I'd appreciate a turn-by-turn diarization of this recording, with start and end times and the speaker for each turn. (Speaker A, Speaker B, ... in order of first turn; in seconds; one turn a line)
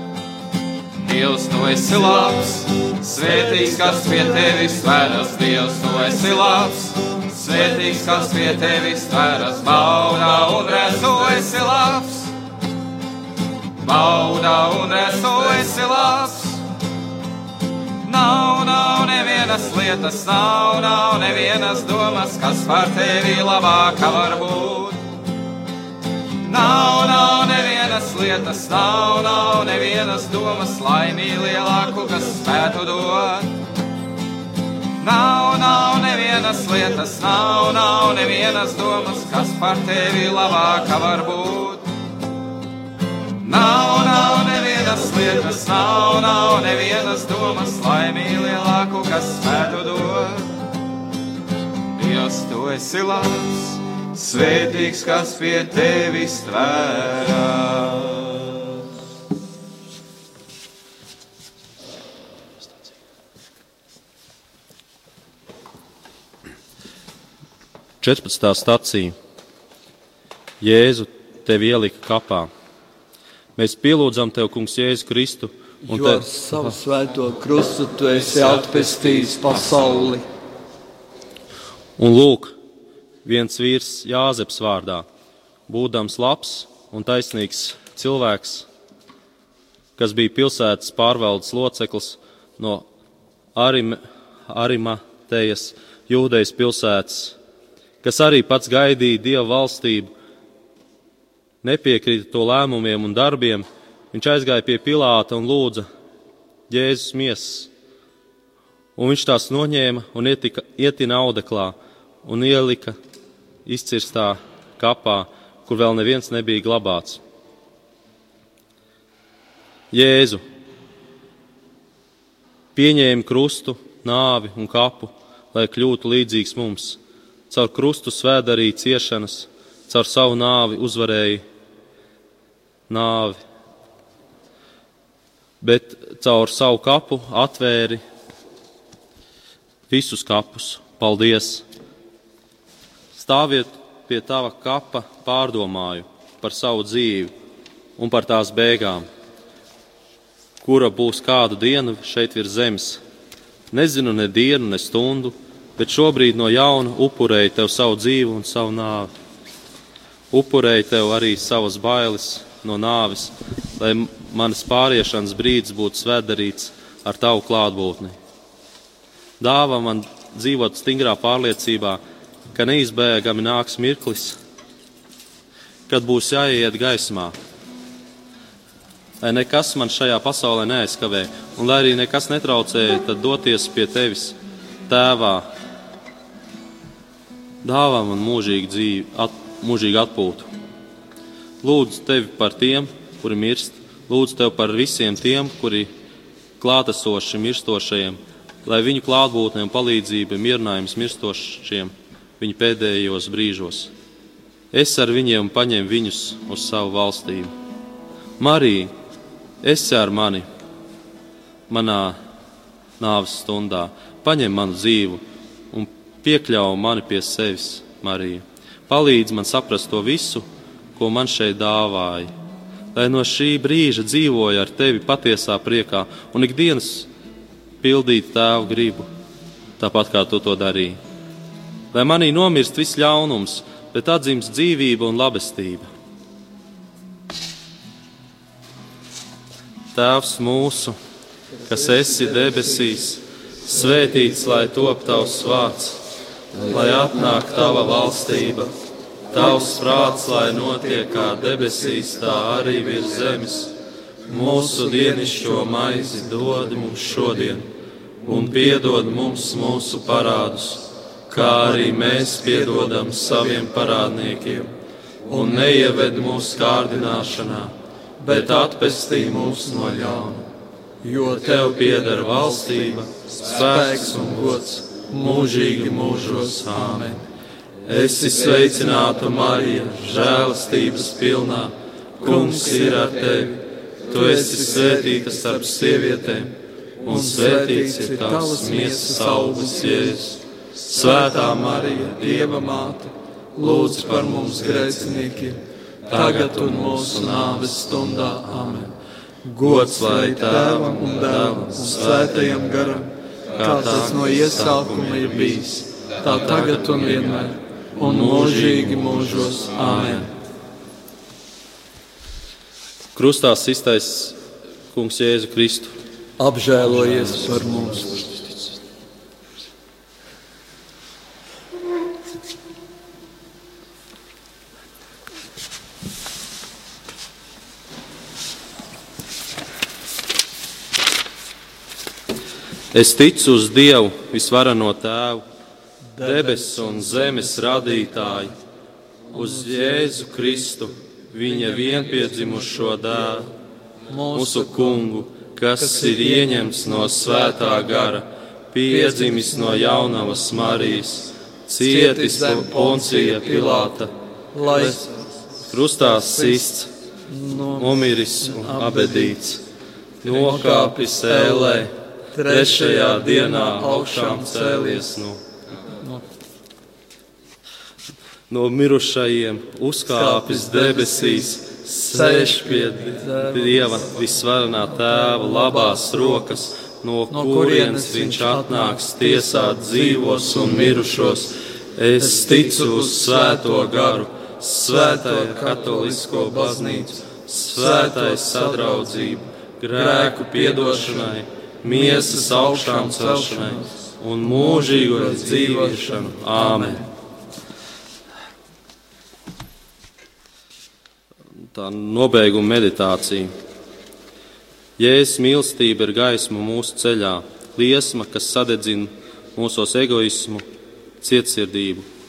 Speaker A: 0.9-12.3
Speaker A: 13.8-16.6
Speaker A: 18.0-25.0
Speaker A: 26.4-33.5
Speaker A: 35.0-41.9
Speaker A: 43.4-50.5
Speaker A: 51.9-58.5
Speaker B: 68.0-69.1
Speaker B: 70.6-72.5
Speaker B: 73.5-76.8
Speaker C: 75.8-80.2
Speaker B: 82.0-82.5
Speaker B: 83.2-85.0
Speaker B: 85.7-88.7
Speaker B: 90.0-92.8
Speaker B: 93.5-97.3
Speaker B: 98.0-100.1
Speaker B: 101.6-105.8
Speaker B: 106.7-107.7
Speaker B: 109.0-113.0
Speaker B: 113.7-117.2
Speaker B: 119.9-120.4
Speaker B: 122.7-127.0
Speaker B: 127.5-131.4
Speaker B: 132.9-133.4
Speaker B: 135.6-138.0
Speaker B: 139.9-141.6
Speaker B: 143.1-147.3
Speaker B: 148.0-149.1
Speaker B: 150.6-153.0
Speaker B: 153.7-159.1
Speaker B: 160.3-168.2
Speaker B: 169.4-172.0
Speaker B: 172.5-174.4
Speaker B: 175.9-177.3
Speaker B: 179.2-184.3
Speaker B: 184.9-185.5
Speaker B: 187.6-190.5
Speaker B: 191.6-195.9
Speaker B: 196.6-203.9
Speaker B: 204.7-207.5
Speaker B: 208.4-208.9
Speaker B: 209.6-210.4
Speaker B: 211.7-212.2
Speaker B: 213.0-220.4
Speaker B: 220.9-222.3
Speaker B: 222.9-227.1
Speaker B: 227.8-229.1
Speaker B: 229.8-231.0
Speaker B: 231.9-235.9
Speaker B: 239.9-240.9
Speaker B: 241.7-246.0
Speaker B: 246.5-248.7
Speaker B: 249.3-253.7
Speaker B: 254.3-257.7
Speaker B: 258.2-264.7
Speaker C: 261.3-264.5
Speaker B: 265.3-267.7
Speaker C: 265.3-266.4
Speaker C: 268.2-270.4
Speaker B: 268.2-270.4
Speaker C: 271.0-277.2
Speaker B: 271.3-277.1
Speaker B: 277.9-283.6
Speaker C: 277.9-280.4
Speaker C: 282.2-283.5
Speaker C: 284.1-286.4
Speaker B: 284.1-290.4
Speaker C: 287.0-290.2
Speaker B: 290.9-292.9
Speaker C: 290.9-298.9
Speaker B: 293.6-295.3
Speaker B: 296.1-298.9
Speaker C: 299.4-310.3
Speaker B: 299.6-302.9
Speaker B: 303.5-310.3
Speaker B: 313.1-314.4
Speaker B: 314.9-315.9
Speaker C: 316.4-318.3
Speaker B: 316.9-317.9
Speaker B: 332.9-335.4
Speaker C: 336.1-338.3
Speaker B: 336.2-338.5
Speaker B: 339.3-343.5
Speaker C: 339.3-340.2
Speaker C: 344.1-345.2
Speaker B: 344.3-354.1
Speaker C: 345.8-348.2
Speaker C: 348.9-350.8
Speaker C: 351.8-354.0
Speaker C: 354.5-355.3
Speaker B: 354.7-355.0
Speaker B: 355.7-356.9
Speaker C: 356.0-356.7
Speaker C: 357.3-359.4
Speaker B: 357.8-359.6
Speaker B: 360.2-361.9
Speaker C: 360.2-365.2
Speaker B: 362.4-365.4
Speaker B: 368.5-397.0
Speaker C: 370.1-374.2
Speaker C: 374.9-376.5
Speaker C: 377.3-381.5
Speaker C: 382.2-384.3
Speaker C: 384.8-387.1
Speaker C: 387.7-389.4
Speaker C: 389.9-397.1
Speaker B: 401.7-403.5
Speaker B: 405.0-410.6
Speaker B: 411.2-412.1